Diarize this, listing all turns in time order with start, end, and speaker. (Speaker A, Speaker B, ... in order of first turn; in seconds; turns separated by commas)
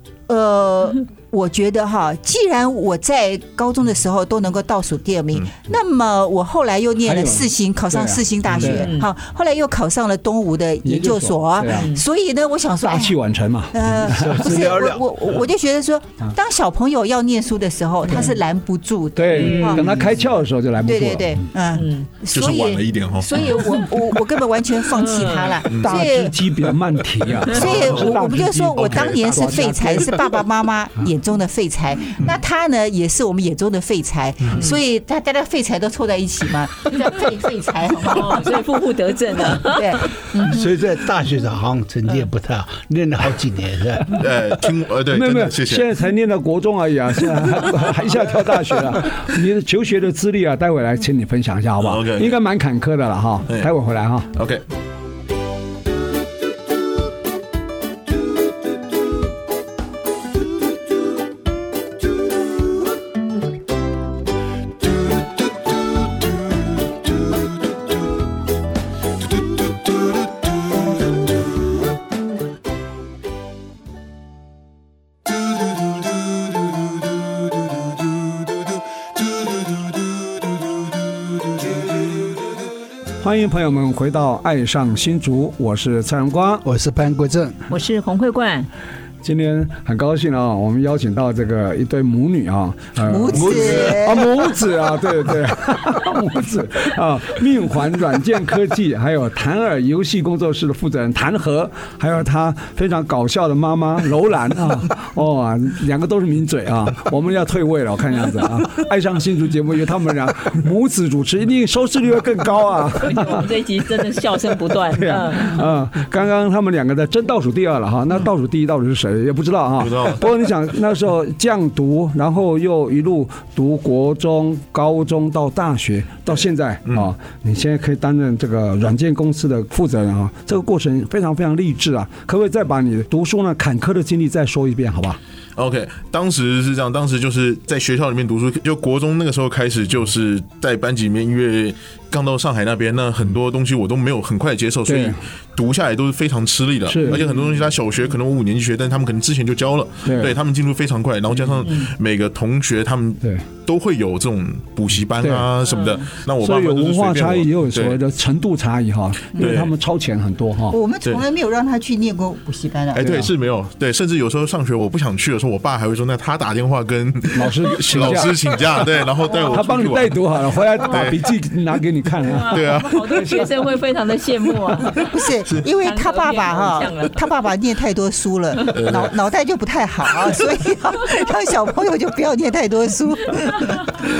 Speaker A: 0.3-13.2, Speaker B: 7.0-8.8, Speaker C: 8.7-9.1, Speaker B: 10.8-11.9, Speaker C: 11.7-12.0, Speaker B: 12.9-14.4, Speaker A: 13.7-19.9, Speaker D: 14.1-15.0, Speaker B: 19.1-21.4, Speaker C: 19.3-19.8, Speaker A: 20.8-26.4, Speaker C: 21.7-22.1, Speaker E: 22.3-23.6, Speaker C: 24.9-25.6, Speaker E: 25.7-26.0, Speaker B: 25.8-30.1, Speaker E: 27.4-29.6, Speaker A: 27.5-38.4, Speaker C: 38.1-40.2, Speaker A: 39.6-40.7, Speaker D: 40.4-44.1, Speaker E: 44.1-45.8, Speaker B: 45.1-54.3, Speaker E: 51.8-52.4, Speaker E: 54.3-54.6, Speaker B: 83.2-86.6, Speaker D: 86.6-87.6, Speaker C: 87.7-88.7, Speaker B: 89.2-113.5, Speaker A: 93.0-94.3, Speaker D: 93.3-94.1, Speaker C: 113.0-115.6, Speaker B: 114.9-135.2, Speaker E: 119.8-120.2, Speaker E: 135.6-158.0, Speaker B: 144.8-145.2, Speaker B: 146.9-147.2, Speaker B: 150.0-150.3, Speaker C: 151.6-151.9, Speaker B: 155.2-155.5, Speaker C: 155.6-156.1, Speaker B: 156.4-160.8, Speaker E: 159.4-159.7, Speaker A: 160.7-163.2, Speaker E: 162.9-170.3, Speaker B: 163.0-163.3, Speaker B: 167.3-168.3, Speaker C: 169.2-169.6, Speaker B: 169.5-173.5, Speaker C: 170.7-171.2, Speaker E: 170.9-171.2, Speaker C: 172.2-175.2, Speaker E: 172.5-173.4, Speaker A: 175.1-183.9, Speaker C: 175.8-177.1, Speaker E: 178.7-179.1